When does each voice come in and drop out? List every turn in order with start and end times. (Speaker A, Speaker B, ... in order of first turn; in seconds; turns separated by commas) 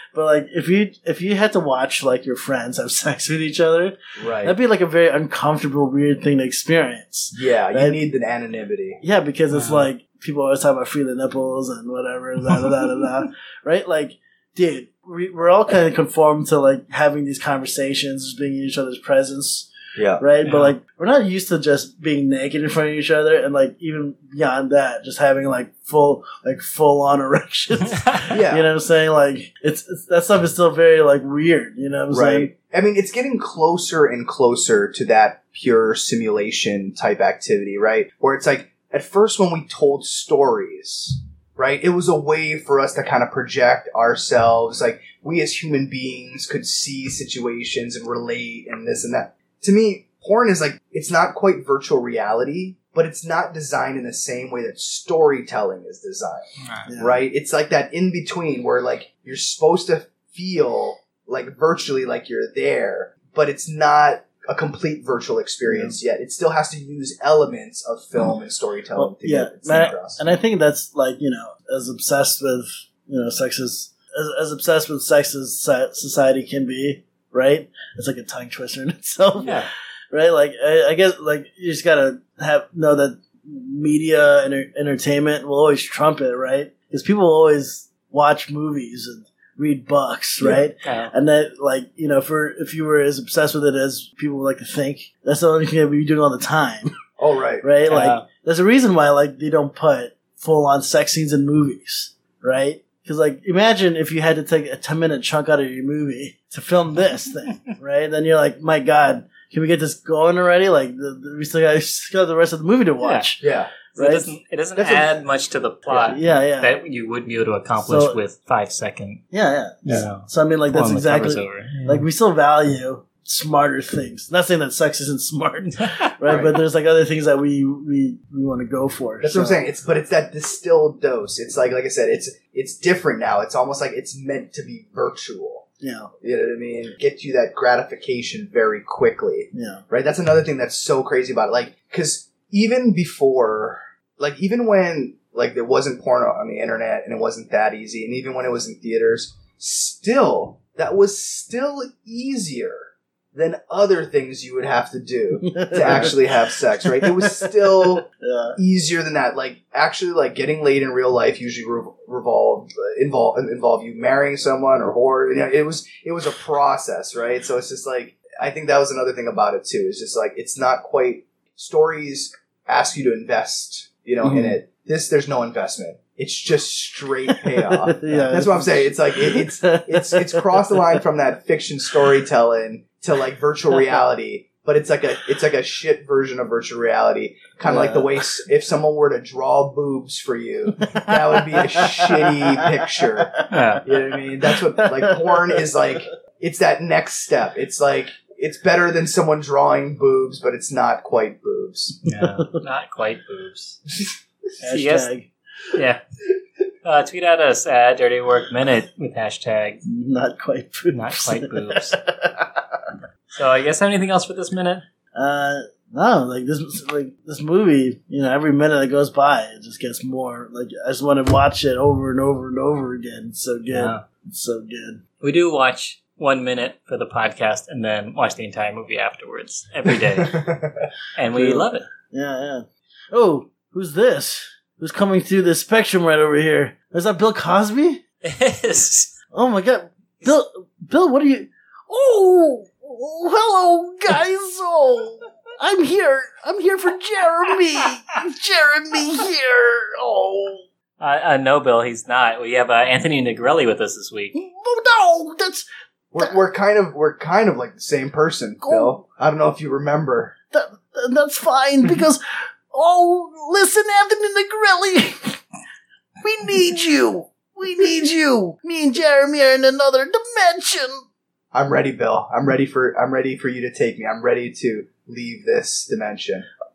Speaker A: 0.1-8.0, Speaker B: 4.2-4.5, Speaker B: 7.3-9.0, Speaker A: 9.0-32.5, Speaker C: 9.5-9.9, Speaker B: 20.0-20.2, Speaker C: 20.4-20.8, Speaker B: 28.3-28.7, Speaker B: 32.1-70.2, Speaker A: 56.9-57.2, Speaker A: 65.7-66.0, Speaker A: 69.0-96.9, Speaker C: 90.8-91.1, Speaker B: 97.2-97.7, Speaker A: 97.6-113.4, Speaker C: 97.9-98.2, Speaker C: 113.0-113.3, Speaker B: 113.4-113.7, Speaker C: 113.9-119.2, Speaker A: 114.0-114.3, Speaker B: 114.8-115.2, Speaker A: 115.9-116.7, Speaker A: 117.8-118.2, Speaker A: 119.3-129.6, Speaker C: 119.9-122.1, Speaker C: 125.8-126.0, Speaker B: 126.3-126.5, Speaker B: 129.2-135.7, Speaker A: 135.8-136.1, Speaker B: 136.2-202.0, Speaker A: 139.5-139.8, Speaker A: 155.5-158.6, Speaker A: 174.2-174.6, Speaker A: 177.6-180.8, Speaker A: 187.6-188.2, Speaker A: 190.8-192.7, Speaker C: 193.5-193.9, Speaker A: 194.8-195.6, Speaker C: 202.1-203.8, Speaker A: 204.6-205.3, Speaker C: 204.7-205.1, Speaker C: 205.7-206.0, Speaker C: 206.8-209.8, Speaker A: 209.9-212.5, Speaker C: 210.9-212.0, Speaker C: 213.3-214.8, Speaker A: 215.2-225.0, Speaker C: 223.7-224.0, Speaker C: 225.2-230.5, Speaker B: 230.2-230.9, Speaker C: 231.2-231.9, Speaker A: 231.3-238.0, Speaker C: 238.2-239.1, Speaker A: 239.3-250.7, Speaker C: 251.0-254.3, Speaker A: 254.3-255.7, Speaker B: 256.1-260.4, Speaker A: 258.6-259.0, Speaker A: 260.5-265.4, Speaker A: 266.2-271.1, Speaker B: 271.5-276.5